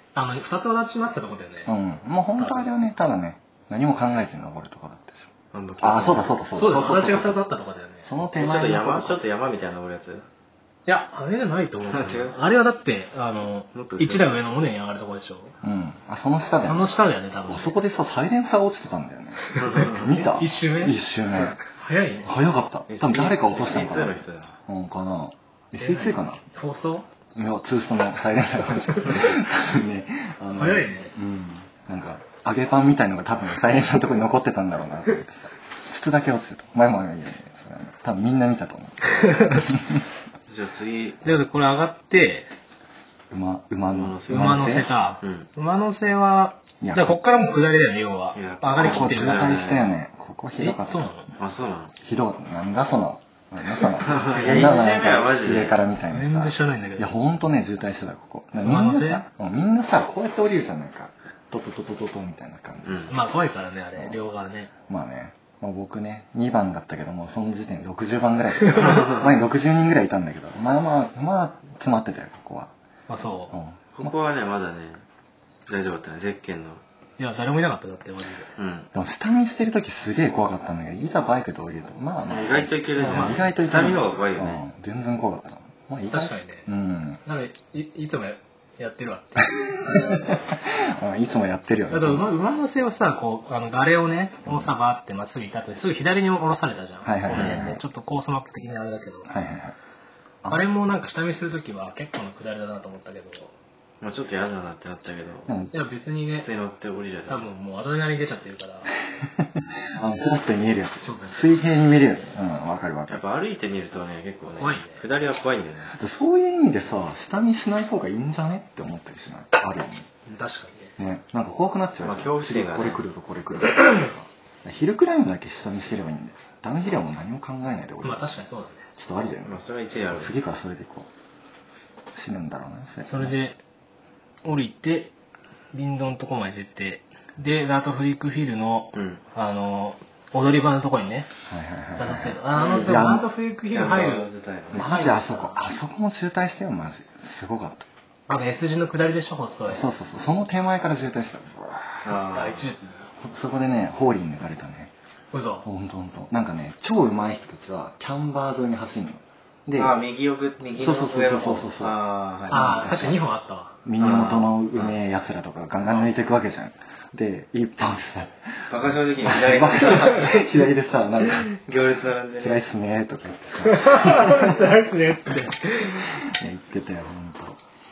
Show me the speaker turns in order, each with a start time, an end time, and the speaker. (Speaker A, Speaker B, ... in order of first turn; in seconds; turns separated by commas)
Speaker A: 0.1-1.7, Speaker B: 1.6-7.4, Speaker A: 2.4-2.7, Speaker C: 5.5-7.2, Speaker A: 6.5-8.1, Speaker B: 8.0-9.2, Speaker C: 8.3-10.2, Speaker A: 10.8-15.5, Speaker C: 11.9-12.4, Speaker C: 13.7-14.3, Speaker B: 15.6-21.6, Speaker A: 16.6-17.8, Speaker A: 19.4-22.3, Speaker C: 19.6-20.0, Speaker B: 22.2-26.4, Speaker C: 22.9-24.6, Speaker A: 25.8-27.1, Speaker B: 27.3-40.0, Speaker A: 30.5-31.1, Speaker A: 39.2-39.6, Speaker C: 40.5-41.2, Speaker A: 41.2-42.5, Speaker B: 43.3-44.9, Speaker C: 43.9-45.5, Speaker A: 44.3-49.6, Speaker B: 46.8-47.2, Speaker C: 48.3-49.9, Speaker B: 48.8-51.0, Speaker A: 50.6-51.3, Speaker C: 51.4-51.9, Speaker B: 52.0-63.2, Speaker C: 54.0-55.8, Speaker A: 54.1-55.0, Speaker A: 56.1-57.1, Speaker A: 58.6-59.2, Speaker C: 62.8-63.1, Speaker A: 63.1-64.7, Speaker B: 64.0-64.2, Speaker B: 64.9-72.7, Speaker C: 68.9-69.2, Speaker A: 73.1-73.5, Speaker B: 73.5-74.1, Speaker C: 73.9-75.0, Speaker C: 75.7-76.8, Speaker A: 77.2-78.5, Speaker C: 78.6-78.9, Speaker B: 78.9-87.2, Speaker C: 82.3-84.6, Speaker A: 83.0-83.5, Speaker A: 86.1-86.7, Speaker A: 87.2-90.1, Speaker B: 89.5-92.3, Speaker A: 91.9-99.3, Speaker B: 94.5-94.7, Speaker B: 97.0-97.8, Speaker C: 97.3-97.6, Speaker B: 99.3-99.8, Speaker A: 100.5-103.5, Speaker C: 104.0-105.5, Speaker B: 105.5-105.7, Speaker A: 105.7-106.5, Speaker C: 106.4-107.5, Speaker A: 107.3-108.9, Speaker B: 109.1-113.2, Speaker A: 111.0-111.6, Speaker C: 113.1-115.9, Speaker A: 114.6-115.0, Speaker B: 115.9-120.1, Speaker A: 120.3-121.0, Speaker B: 121.0-128.4, Speaker C: 122.0-123.0, Speaker A: 128.0-128.8, Speaker B: 128.9-131.1, Speaker C: 129.4-130.3, Speaker B: 132.1-133.3, Speaker A: 133.0-133.6, Speaker A: 134.4-135.1, Speaker A: 135.7-141.3, Speaker C: 138.9-139.2, Speaker B: 141.5-143.3, Speaker A: 142.0-145.6, Speaker C: 142.5-143.0, Speaker C: 143.7-145.1, Speaker B: 144.7-147.9, Speaker A: 148.3-149.8, Speaker B: 149.7-152.2, Speaker C: 152.0-152.7, Speaker A: 152.3-153.1, Speaker B: 153.2-154.9, Speaker A: 155.3-155.7, Speaker B: 155.6-160.0, Speaker C: 159.8-162.8, Speaker B: 160.7-163.2, Speaker A: 162.5-163.8, Speaker B: 163.8-171.5, Speaker C: 164.0-165.0, Speaker C: 168.7-170.4, Speaker A: 170.1-170.4, Speaker C: 171.2-172.6, Speaker B: 172.4-174.7, Speaker A: 173.6-176.1, Speaker B: 175.3-177.6